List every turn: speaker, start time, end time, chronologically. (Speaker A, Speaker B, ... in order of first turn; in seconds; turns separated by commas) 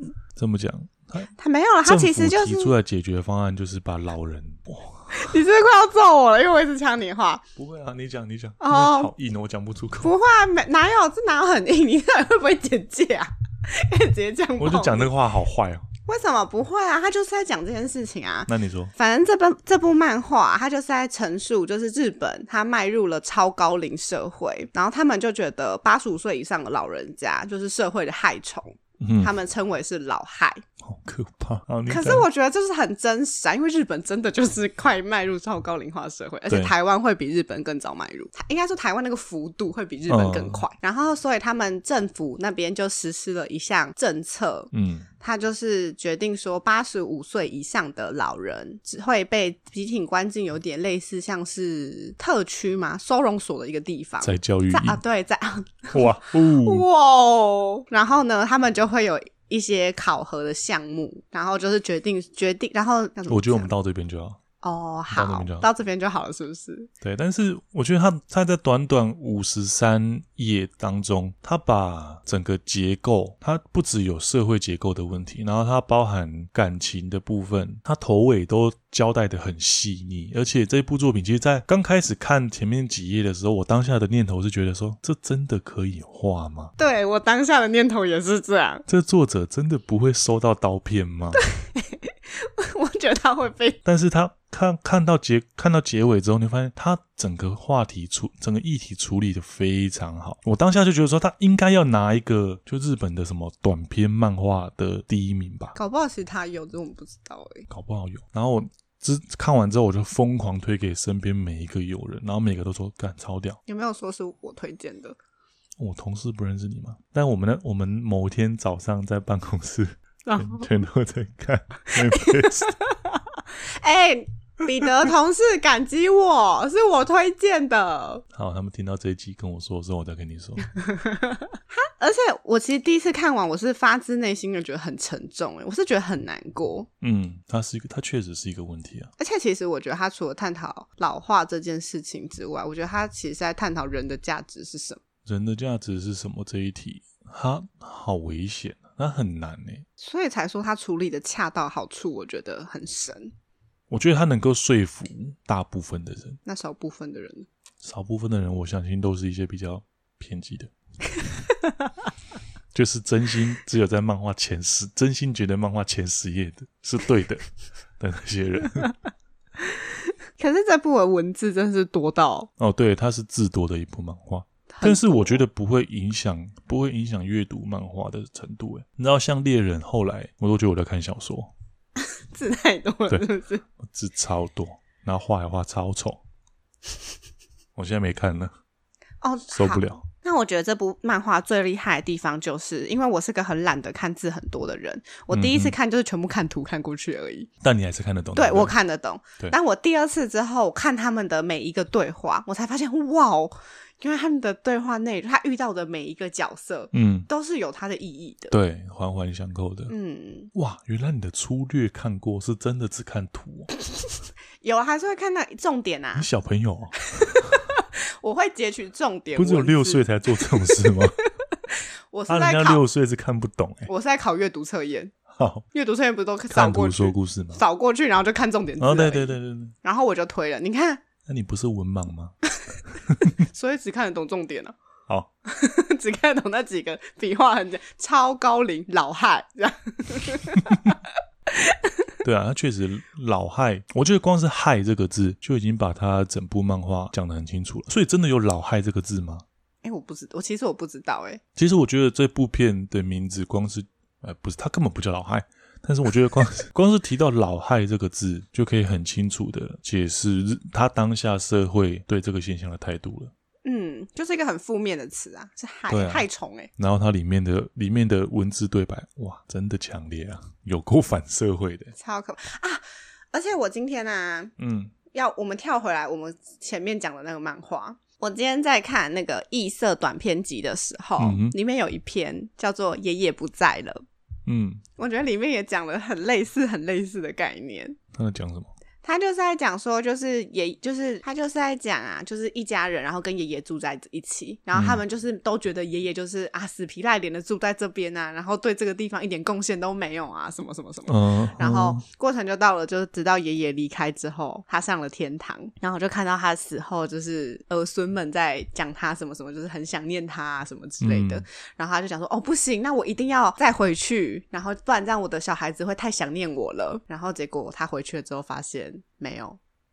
Speaker A: 0.3-1.3, Speaker B: 1.3-2.7, Speaker A: 1.9-5.3, Speaker B: 5.1-7.5, Speaker A: 7.6-10.1, Speaker B: 8.6-9.1, Speaker B: 10.0-15.1, Speaker A: 14.6-15.9, Speaker B: 16.1-30.6, Speaker A: 18.5-18.9, Speaker A: 29.0-29.3, Speaker A: 30.8-32.3, Speaker B: 31.9-44.7, Speaker A: 36.5-36.7, Speaker A: 40.1-40.6, Speaker A: 44.7-45.1, Speaker B: 45.2-63.7, Speaker A: 54.2-55.0, Speaker A: 55.9-56.9, Speaker A: 63.3-64.4, Speaker B: 64.6-66.9, Speaker A: 65.1-65.7, Speaker A: 67.0-86.7, Speaker B: 86.8-88.9, Speaker A: 88.9-91.4, Speaker B: 91.4-93.8, Speaker A: 93.8-105.8, Speaker B: 105.8-107.7, Speaker A: 107.7-113.6, Speaker B: 113.7-115.2, Speaker A: 115.8-122.8, Speaker B: 120.3-120.7, Speaker B: 121.9-128.2, Speaker A: 128.3-130.7, Speaker B: 130.8-136.9, Speaker A: 137.0-139.1, Speaker B: 139.2-145.0, Speaker A: 145.2-149.9, Speaker B: 150.0-153.3, Speaker A: 153.9-156.4, Speaker B: 156.5-157.5, Speaker A: 157.8-160.7, Speaker B: 161.3-161.9, Speaker A: 162.7-167.5, Speaker A: 168.0-168.9, Speaker B: 169.6-172.5, Speaker A: 172.6-181.5, Speaker B: 174.7-175.4, Speaker B: 182.0-183.6, Speaker A: 183.8-186.2, Speaker A: 187.8-188.5, Speaker B: 189.2-197.5, Speaker A: 189.5-190.0, Speaker A: 195.3-195.8, Speaker A: 197.6-198.8, Speaker B: 198.4-208.6, Speaker A: 206.9-207.3, Speaker A: 208.5-209.9, Speaker B: 209.9-210.5, Speaker A: 210.5-213.7, Speaker B: 213.8-216.3, Speaker A: 216.2-217.6, Speaker B: 217.1-222.8, Speaker A: 219.4-221.2, Speaker A: 222.3-223.9, Speaker B: 223.9-225.1, Speaker A: 225.3-225.7, Speaker B: 225.7-231.0, Speaker A: 226.5-227.6, Speaker A: 228.8-229.8, Speaker A: 231.3-232.4, Speaker A: 232.9-233.3, Speaker B: 233.3-234.8, Speaker B: 235.5-242.1, Speaker A: 242.2-249.4, Speaker B: 249.8-251.4, Speaker A: 251.6-263.3, Speaker B: 263.6-266.7, Speaker A: 265.9-266.2, Speaker A: 266.8-271.9, Speaker B: 271.9-274.5, Speaker A: 274.6-274.9, Speaker B: 275.1-284.0, Speaker A: 281.2-281.6, Speaker A: 284.5-284.8, Speaker B: 285.0-288.0, Speaker A: 288.1-288.7, Speaker B: 289.0-319.6, Speaker A: 294.7-295.0, Speaker A: 301.1-302.0, Speaker A: 311.0-311.4